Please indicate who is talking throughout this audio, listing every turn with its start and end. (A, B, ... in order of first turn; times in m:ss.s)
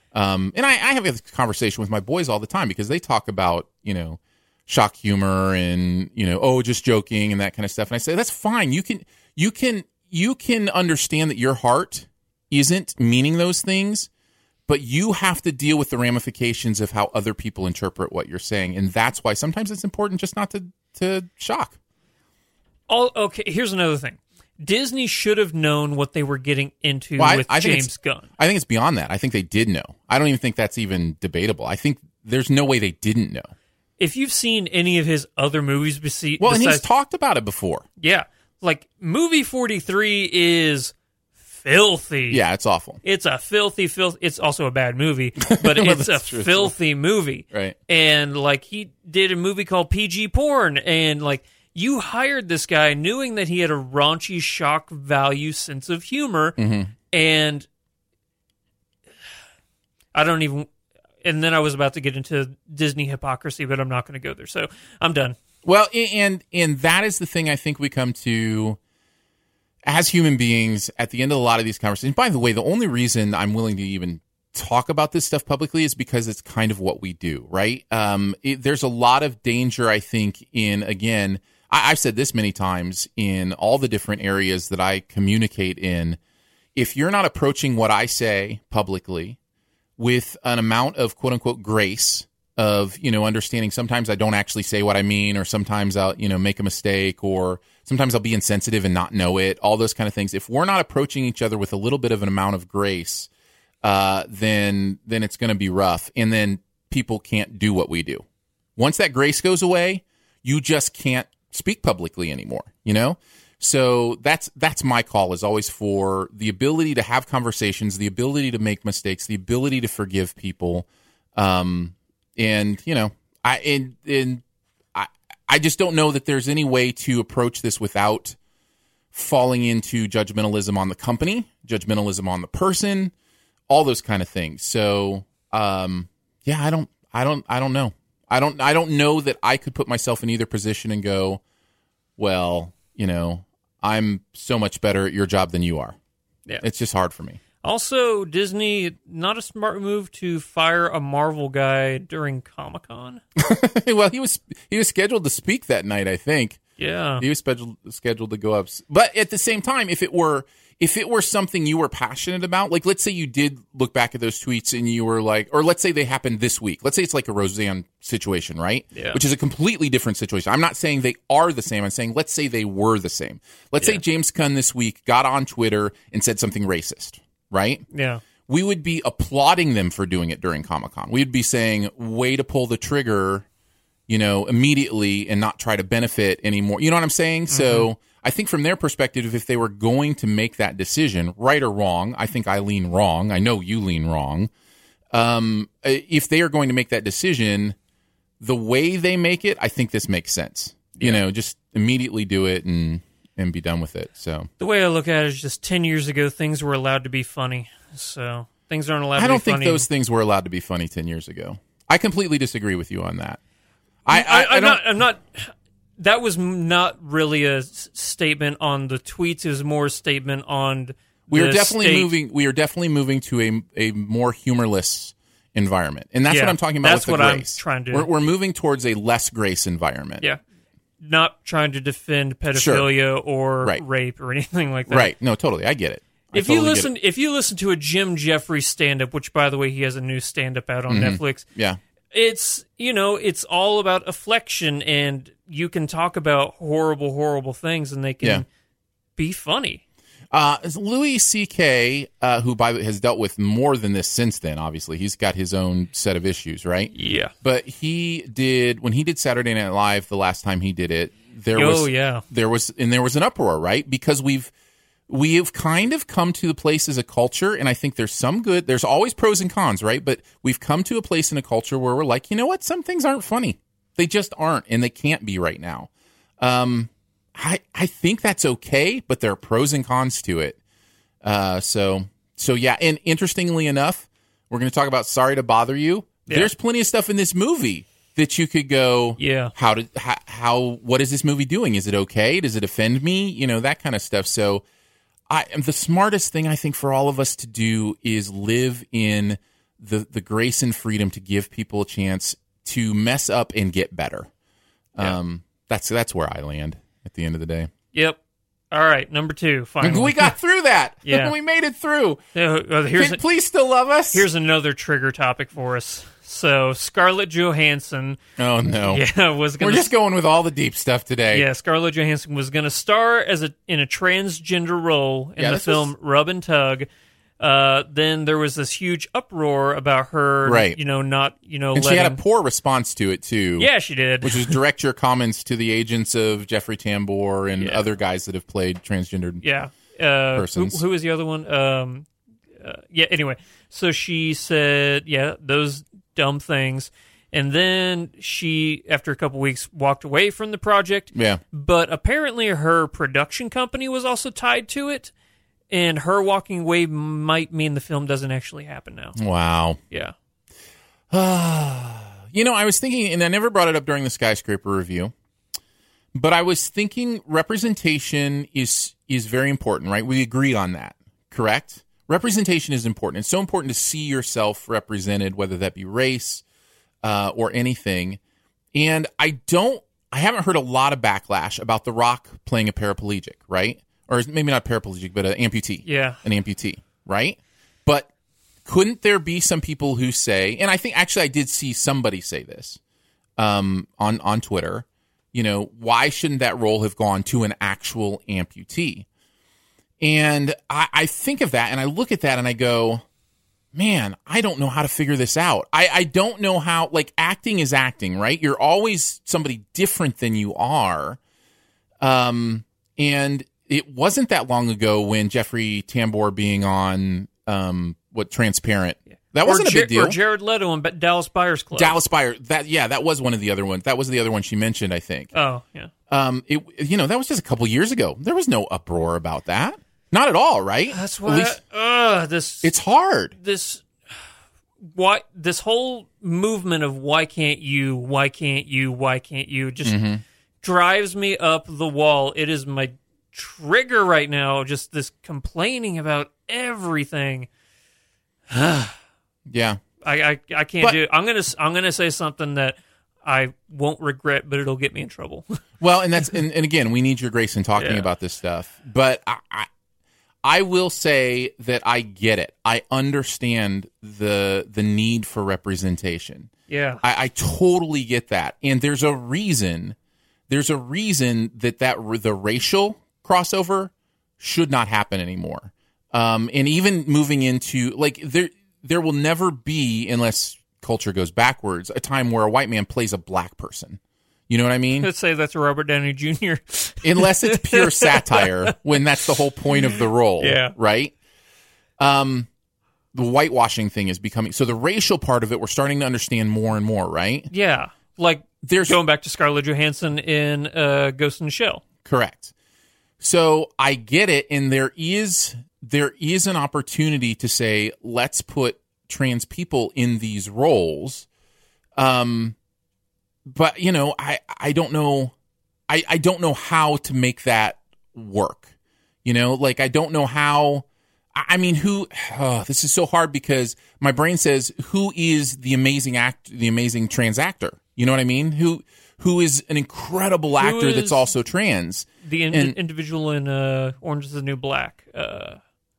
0:00.1-0:14.1 A
0:14.7-0:21.8 A
0:22.9-0:28.3 B
0:27.2-0:33.5 A
0:34.0-0:36.9 B
0:36.4-0:37.8 A
0:38.0-0:40.9 B
0:41.5-0:42.4 B
0:42.3-0:43.0 A
0:43.0-0:56.6 B
0:45.4-0:46.7 A
0:56.6-0:56.9 A
0:57.1-0:57.7 B
1:00.1-1:00.7 B
1:01.2-1:05.4 B
1:05.6-1:08.8 A
1:09.8-1:26.2 A
1:26.8-1:29.4 A
1:30.0-1:43.3 A
1:43.8-1:48.2 A
1:48.8-2:04.4 A
2:04.9-2:08.4 A
2:09.1-2:13.1 A
2:13.7-2:21.4 A
2:22.2-2:26.0 A
2:26.6-2:27.4 A
2:27.6-2:33.2 B
2:33.4-2:36.6 A
2:36.8-2:37.2 B
2:37.2-2:57.8 A
2:48.9-2:49.2 B
2:57.9-2:58.2 B
2:58.4-3:03.4 A
3:04.1-3:14.5 A
3:07.5-3:07.9 B
3:15.1-3:17.8 A
3:18.4-3:24.5 A
3:24.6-3:29.9 B
3:29.2-3:33.4 A
3:34.0-3:34.8 A
3:34.1-3:42.1 B
3:41.3-3:50.3 A
3:46.3-3:48.1 B
3:51.0-3:55.1 B
3:52.5-3:52.8 A
3:54.9-3:56.9 A
3:56.3-4:01.4 B
4:00.9-4:01.8 A
4:02.1-4:08.4 B
4:09.2-4:09.8 B
4:10.3-4:16.9 A
4:16.9-4:17.3 B
4:17.4-4:24.5 A
4:21.6-4:22.2 B
4:25.1-4:35.9 A
4:36.4-4:40.6 A
4:41.2-4:54.6 A
4:49.2-4:49.5 B
4:55.3-5:04.3 A
5:04.9-5:07.7 A
5:08.7-5:10.3 B
5:09.8-5:12.2 A
5:11.1-5:11.3 B
5:12.3-5:13.2 B
5:13.0-5:14.3 A
5:14.1-5:18.2 B
5:18.4-5:19.0 A
5:18.8-5:19.9 B
5:19.6-5:21.4 A
5:21.3-5:26.9 B
5:25.4-5:25.9 A
5:27.4-5:32.2 B
5:30.4-5:30.8 A
5:31.7-5:33.7 A
5:33.6-5:34.6 B
5:34.2-5:39.4 A
5:37.6-5:37.8 B
5:39.4-5:42.1 B
5:40.3-5:40.8 A
5:42.6-5:55.1 B
5:51.1-5:51.4 A
5:55.7-5:59.2 B
5:59.2-5:59.8 A
6:01.1-6:05.1 A
6:06.2-6:16.4 A
6:17.0-6:18.2 A
6:18.7-6:28.1 A
6:25.8-6:26.2 B
6:28.7-6:32.8 A
6:33.4-6:39.1 A
6:40.0-6:43.0 A
6:43.7-6:51.2 A
6:52.0-7:00.2 A
6:59.4-7:02.0 B
7:01.8-7:05.3 A
7:05.3-7:05.9 B
7:06.1-7:11.6 A
7:10.9-7:12.7 B
7:12.6-7:13.3 A
7:13.4-7:13.8 B
7:14.9-7:20.0 B
7:19.8-7:20.2 A
7:20.6-7:27.5 B
7:28.5-7:28.9 B
7:29.5-7:29.8 A
7:30.0-7:35.4 B
7:35.8-7:39.7 A
7:37.8-7:38.1 B
7:40.4-7:46.5 A
7:46.7-7:47.0 B
7:47.0-7:50.0 A
7:50.5-8:05.1 A
8:05.0-8:09.1 B
8:07.0-8:11.1 A
8:09.7-8:10.8 B
8:12.0-8:12.5 A
8:13.1-8:17.5 A
8:17.5-8:21.8 B
8:18.6-8:18.9 A
8:22.0-8:22.5 A
8:23.2-8:31.3 A
8:32.0-8:32.6 A
8:33.4-8:35.3 A
8:35.9-8:38.7 A
8:39.2-8:40.8 A
8:41.4-8:52.8 A
8:50.6-8:51.2 B
8:52.2-8:55.6 B